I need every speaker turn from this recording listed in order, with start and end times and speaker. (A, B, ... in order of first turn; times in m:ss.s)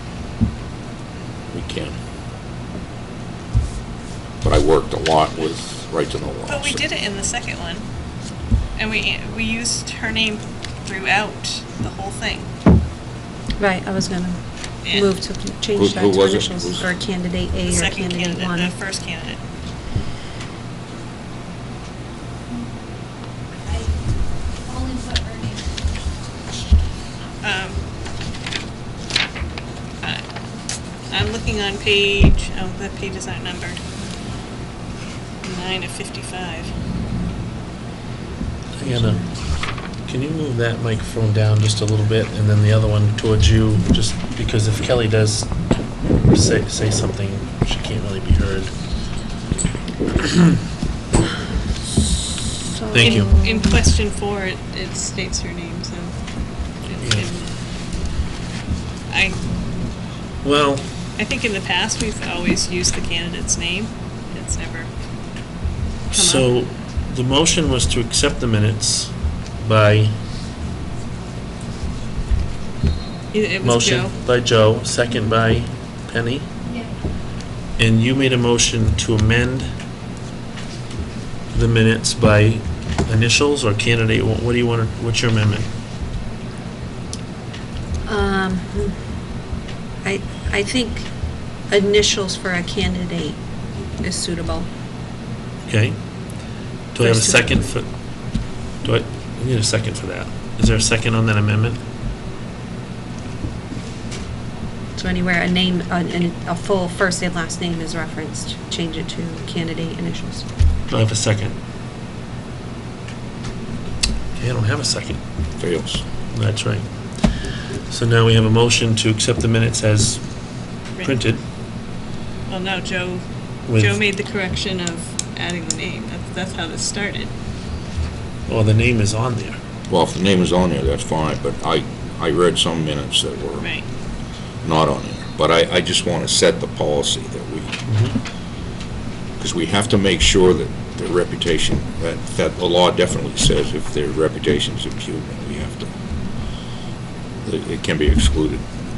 0:01.5-0:02.0 A
0:04.4-0:06.8 A
0:06.5-0:07.8 B
0:08.8-0:12.5 B
0:13.6-0:18.7 C
0:14.8-0:15.1 B
0:15.8-0:16.8 A
0:17.6-0:19.4 B
0:23.6-0:26.0 D
0:27.4-0:27.8 B
0:31.1-0:33.8 B
0:35.4-0:36.7 B
0:38.8-0:39.3 E
0:38.8-0:39.3 C
0:40.0-0:45.6 E
0:46.1-0:48.7 E
0:52.7-0:53.8 C
0:52.9-0:53.3 E
0:53.0-0:56.1 B
0:56.8-0:57.5 B
0:57.0-0:57.3 E
0:59.1-0:59.4 B
1:00.4-1:00.9 E
1:01.2-1:04.9 B
1:06.1-1:06.5 B
1:06.1-1:10.2 E
1:13.3-1:14.1 B
1:13.6-1:16.5 E
1:16.6-1:16.9 D
1:17.8-1:19.7 E
1:21.5-1:25.7 E
1:28.0-1:29.0 C
1:30.0-1:33.4 C
1:34.0-1:34.7 C
1:35.6-1:36.1 E
1:36.9-1:41.8 E
1:37.0-1:37.7 C
1:45.0-1:50.4 C
1:50.9-1:51.5 E
1:54.3-1:55.2 E
1:55.6-1:56.0 A
1:56.3-1:56.9 E
1:57.9-2:01.4 E
2:00.9-2:01.2 B
2:02.5-2:07.3 B
2:03.7-2:04.0 E
2:08.5-2:09.6 E
2:09.9-2:13.7 A
2:13.6-2:13.8 B
2:14.6-2:17.8 A
2:17.9-2:18.2 E
2:19.4-2:25.9 A
2:27.4-2:28.6 A